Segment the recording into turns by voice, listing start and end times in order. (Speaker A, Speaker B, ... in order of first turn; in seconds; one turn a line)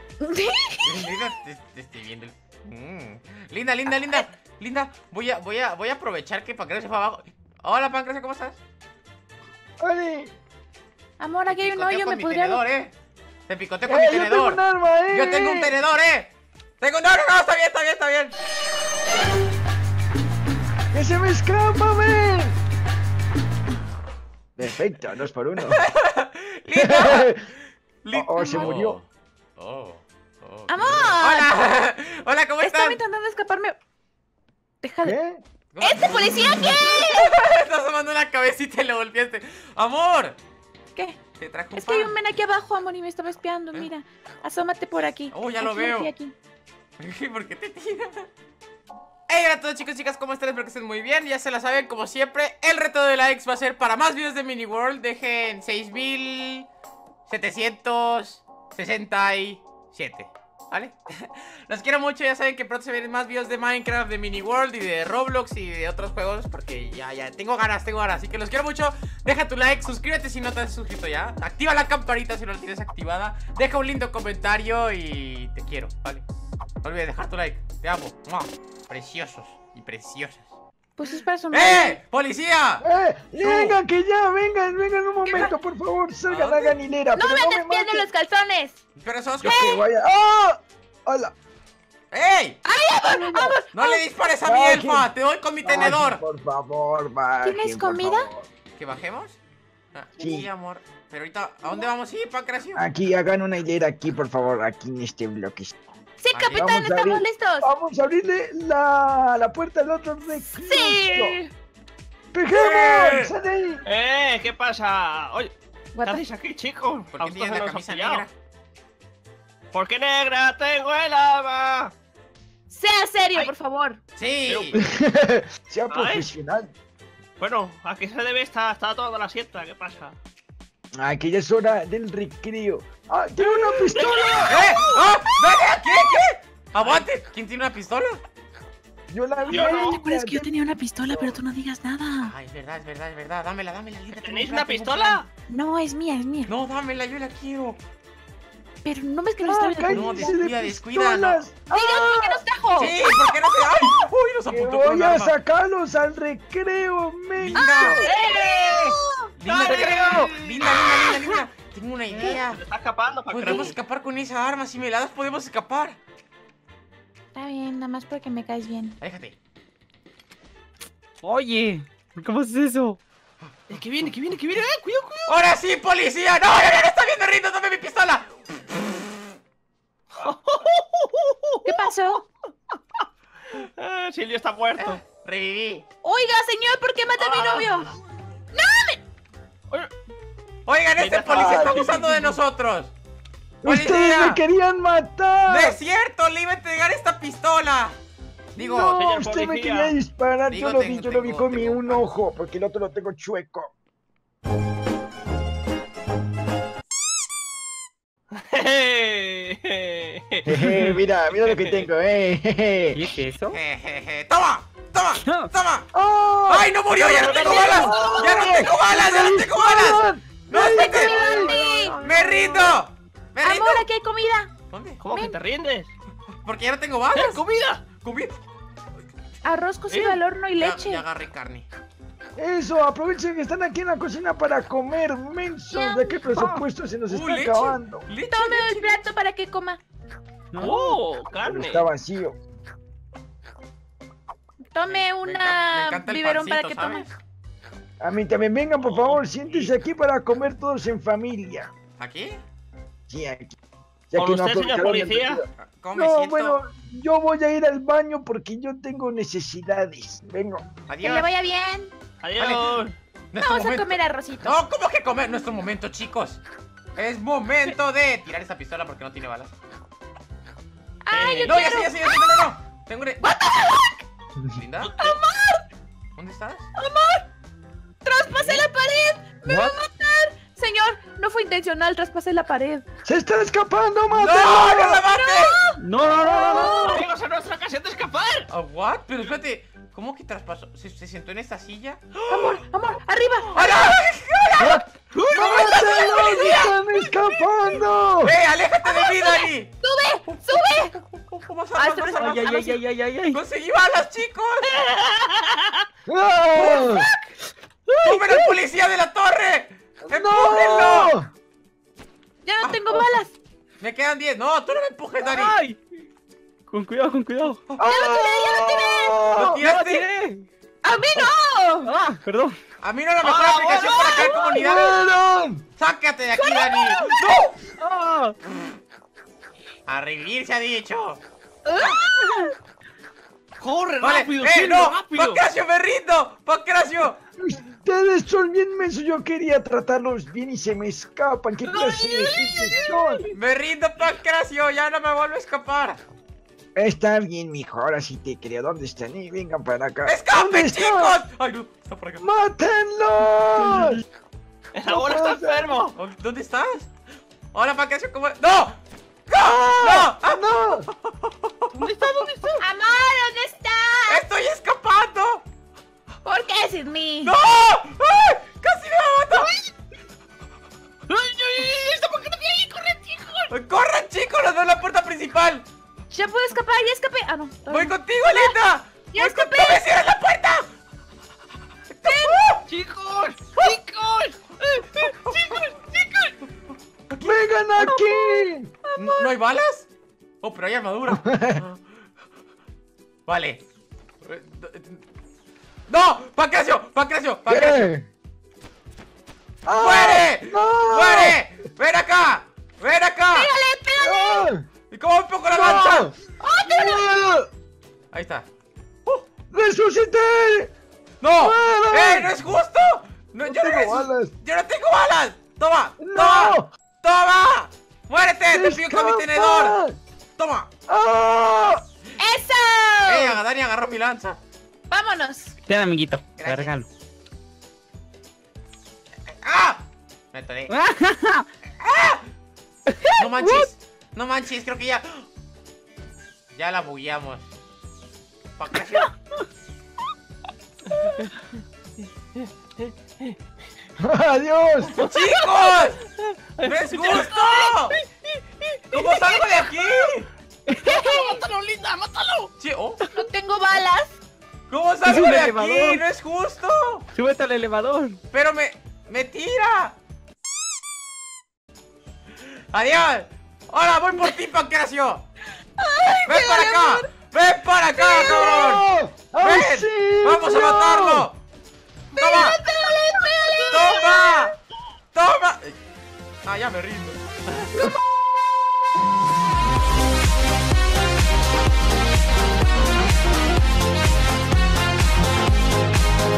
Speaker A: 0.2-1.1
Speaker B: 0.8-8.6
Speaker C: 9.8-10.3
Speaker A: 11.2-12.6
Speaker B: 11.5-12.9
Speaker B: 13.5-18.4
Speaker C: 13.8-15.7
Speaker C: 20.9-22.6
Speaker C: 24.6-25.8
Speaker B: 25.6-27.4
Speaker C: 26.8-27.4
Speaker B: 28.0-33.0
Speaker C: 28.1-29.0
Speaker A: 28.4-28.8
Speaker A: 30.7-31.5
Speaker A: 32.6-33.8
Speaker A: 34.8-35.2
Speaker C: 35.0-35.4
Speaker B: 35.7-40.4
Speaker A: 35.8-37.3
Speaker B: 41.4-42.2
Speaker A: 41.8-46.4
Speaker B: 45.3-46.1
Speaker B: 47.0-48.3
Speaker B: 49.3-56.7
Speaker B: 57.3-76.2
Speaker B: 76.8-80.5
Speaker A: 81.0-82.0
Speaker B: 81.5-82.8
Speaker C: 82.8-88.1
Speaker B: 83.4-83.8
Speaker A: 85.2-85.5
Speaker B: 86.3-86.8
Speaker A: 87.2-88.8
Speaker B: 89.0-89.7
Speaker C: 89.4-91.3
Speaker A: 89.4-89.8
Speaker B: 92.1-92.6
Speaker A: 92.7-94.0
Speaker B: 93.7-96.2
Speaker C: 94.4-95.1
Speaker C: 95.6-98.5
Speaker A: 97.4-98.3
Speaker B: 98.8-99.4
Speaker B: 99.9-102.8
Speaker C: 100.2-100.5
Speaker C: 102.8-105.7
Speaker A: 106.2-107.7
Speaker B: 106.3-106.7
Speaker C: 106.5-111.4
Speaker A: 110.6-111.5
Speaker C: 112.3-113.8
Speaker B: 112.5-113.3
Speaker D: 113.9-118.2
Speaker A: 116.0-116.2
Speaker B: 117.1-118.3
Speaker D: 119.7-121.9
Speaker A: 122.7-124.0
Speaker B: 124.2-124.8
Speaker D: 124.5-124.8
Speaker C: 124.7-126.7
Speaker D: 125.9-126.3
Speaker D: 127.4-130.2
Speaker C: 131.0-134.6
Speaker D: 133.4-135.4
Speaker B: 134.5-138.2
Speaker D: 136.8-137.1
Speaker C: 139.1-140.5
Speaker D: 139.5-140.0
Speaker A: 139.6-142.3
Speaker C: 141.1-141.4
Speaker B: 142.2-145.2
Speaker D: 144.2-145.3
Speaker A: 145.5-146.5
Speaker B: 146.5-147.8
Speaker A: 148.8-150.4
Speaker C: 149.4-152.4
Speaker B: 149.9-151.4
Speaker A: 151.7-153.7
Speaker B: 152.8-155.3
Speaker C: 154.5-158.1
Speaker B: 157.4-158.1
Speaker A: 157.6-160.3
Speaker D: 158.4-158.9
Speaker B: 158.6-162.6
Speaker D: 159.5-160.9
Speaker E: 159.7-160.1
Speaker D: 162.1-163.8
Speaker B: 163.3-166.0
Speaker A: 163.4-163.7
Speaker A: 167.3-169.0
Speaker B: 169.0-169.4
Speaker E: 171.2-173.0
Speaker D: 173.7-175.4
Speaker B: 175.3-178.3
Speaker D: 180.2-181.8
Speaker A: 181.6-182.2
Speaker D: 183.5-185.0
Speaker B: 184.8-185.8
Speaker A: 186.0-188.0
Speaker D: 187.2-187.8
Speaker A: 188.5-189.0
Speaker B: 190.7-192.9
Speaker D: 191.0-192.4
Speaker C: 191.3-192.0
Speaker C: 193.6-195.8
Speaker B: 193.6-194.4
Speaker B: 195.5-198.0
Speaker B: 198.6-199.0
Speaker C: 198.6-203.7
Speaker D: 198.7-200.0
Speaker B: 200.5-202.1
Speaker D: 208.3-210.6
Speaker C: 210.5-213.0
Speaker D: 211.4-211.9
Speaker E: 212.9-213.6
Speaker B: 213.5-215.9
Speaker E: 215.2-215.5
Speaker C: 215.9-216.7
Speaker B: 216.5-221.4
Speaker D: 217.0-218.1
Speaker A: 217.3-218.2
Speaker C: 217.4-221.6
Speaker A: 220.5-222.0
Speaker E: 221.3-222.8
Speaker B: 222.0-223.8
Speaker A: 223.4-224.5
Speaker B: 224.7-225.0
Speaker D: 225.0-225.9
Speaker B: 226.4-227.4
Speaker D: 227.1-227.8
Speaker B: 228.0-228.4
Speaker A: 229.4-231.0
Speaker D: 229.9-230.2
Speaker B: 230.6-231.7
Speaker C: 232.4-238.1
Speaker A: 235.7-236.2
Speaker B: 237.1-239.0
Speaker A: 238.3-239.8
Speaker E: 240.5-241.0
Speaker D: 240.6-241.9
Speaker C: 241.4-242.4
Speaker A: 244.7-247.1
Speaker B: 244.8-247.2
Speaker C: 248.0-251.7
Speaker D: 248.9-249.2
Speaker B: 249.5-249.7
Speaker B: 252.0-252.4
Speaker C: 253.1-253.6
Speaker C: 254.1-260.6
Speaker D: 254.2-255.4
Speaker B: 255.6-256.6
Speaker B: 260.9-261.3
Speaker A: 261.0-261.9
Speaker D: 262.2-262.9
Speaker B: 262.4-262.7
Speaker B: 263.3-266.4
Speaker A: 263.4-264.6
Speaker B: 267.0-269.5
Speaker A: 271.1-272.5
Speaker D: 271.1-271.7
Speaker B: 271.4-273.4
Speaker A: 273.2-274.0
Speaker B: 274.6-274.9
Speaker A: 275.0-275.6
Speaker B: 276.2-276.7
Speaker A: 276.8-277.3
Speaker A: 278.0-282.8
Speaker C: 279.4-279.8
Speaker C: 283.1-285.0
Speaker B: 284.1-285.6
Speaker A: 285.1-287.0
Speaker E: 285.8-287.1
Speaker D: 286.9-288.5
Speaker B: 288.5-292.6
Speaker A: 292.3-293.7
Speaker B: 293.5-296.8
Speaker C: 294.6-298.4
Speaker D: 295.1-296.1
Speaker B: 298.2-299.7
Speaker A: 298.9-300.9
Speaker B: 300.3-302.6
Speaker A: 301.8-302.8
Speaker E: 302.2-303.4
Speaker B: 303.3-304.7
Speaker D: 304.7-305.9
Speaker C: 306.1-307.1
Speaker B: 306.5-306.9
Speaker A: 306.8-307.2
Speaker E: 307.9-308.4
Speaker B: 308.0-311.1
Speaker C: 310.1-311.3
Speaker A: 312.4-313.3
Speaker B: 312.6-313.2
Speaker B: 313.8-315.6
Speaker E: 315.2-315.8
Speaker E: 316.7-317.6
Speaker C: 317.8-319.6
Speaker A: 317.8-319.2
Speaker B: 319.4-320.1
Speaker E: 319.6-320.5
Speaker A: 320.8-321.9
Speaker E: 321.9-322.6
Speaker B: 322.8-325.0
Speaker D: 323.2-324.4
Speaker A: 324.2-324.6
Speaker C: 324.3-325.6
Speaker B: 325.8-327.5
Speaker A: 326.4-327.4
Speaker E: 327.6-328.4
Speaker B: 329.9-331.2
Speaker E: 331.7-332.5
Speaker D: 333.6-335.4
Speaker B: 334.0-337.2
Speaker C: 337.4-343.2
Speaker D: 341.7-343.3
Speaker B: 343.3-346.0
Speaker C: 346.8-351.2
Speaker B: 350.1-352.2
Speaker C: 352.2-354.0
Speaker E: 353.6-354.0
Speaker D: 354.7-355.9
Speaker C: 354.9-355.7
Speaker B: 355.9-356.9
Speaker B: 357.5-361.8
Speaker C: 359.4-360.9
Speaker D: 361.8-362.6
Speaker A: 362.6-364.2
Speaker B: 364.1-365.4
Speaker A: 366.2-367.3
Speaker B: 367.2-369.5
Speaker D: 371.1-373.5
Speaker B: 373.5-375.6
Speaker A: 376.1-378.6
Speaker B: 377.7-380.7
Speaker A: 379.1-379.9
Speaker B: 381.9-382.6
Speaker A: 382.0-382.5
Speaker D: 382.7-386.3
Speaker B: 383.6-383.8
Speaker B: 385.0-385.7
Speaker B: 387.1-387.5
Speaker C: 387.2-388.7
Speaker A: 387.8-389.3
Speaker B: 389.0-389.9
Speaker B: 390.4-391.8
Speaker C: 391.1-391.6
Speaker B: 393.3-393.6
Speaker B: 394.2-395.0
Speaker B: 395.9-397.9
Speaker C: 397.5-398.1
Speaker C: 399.7-401.4
Speaker B: 399.7-403.5
Speaker A: 403.3-404.5
Speaker C: 404.0-404.6
Speaker B: 404.9-406.1
Speaker C: 405.5-406.1
Speaker A: 406.4-407.1
Speaker C: 406.7-407.5
Speaker B: 408.1-408.5
Speaker C: 409.5-410.7
Speaker B: 411.2-419.8
Speaker C: 411.4-412.3
Speaker C: 413.4-414.3
Speaker C: 416.0-416.7
Speaker C: 418.5-420.0
Speaker B: 420.4-420.7
Speaker C: 420.9-421.8
Speaker A: 422.2-423.4
Speaker B: 423.1-424.4
Speaker A: 424.9-425.6
Speaker E: 425.7-426.9
Speaker B: 426.4-426.8
Speaker B: 429.4-430.7
Speaker E: 430.7-431.5
Speaker B: 431.8-432.3
Speaker E: 432.9-433.6
Speaker B: 433.2-435.3
Speaker B: 436.5-437.5
Speaker B: 438.6-439.1
Speaker D: 442.4-443.4
Speaker C: 444.0-444.9
Speaker B: 444.9-446.0
Speaker D: 445.0-450.1
Speaker B: 446.6-448.0
Speaker B: 448.9-450.3
Speaker D: 450.8-452.5
Speaker A: 450.8-451.4
Speaker B: 452.6-453.0
Speaker A: 453.1-454.2
Speaker B: 454.7-457.1
Speaker E: 455.1-456.0
Speaker E: 457.1-458.2
Speaker B: 458.3-460.0
Speaker B: 462.4-465.2
Speaker A: 465.8-467.1
Speaker B: 466.2-468.9
Speaker A: 468.0-468.6
Speaker C: 468.1-471.3
Speaker B: 469.4-471.4
Speaker A: 472.1-474.5
Speaker B: 472.2-472.6
Speaker B: 473.7-474.6
Speaker B: 475.1-475.8
Speaker B: 476.4-477.9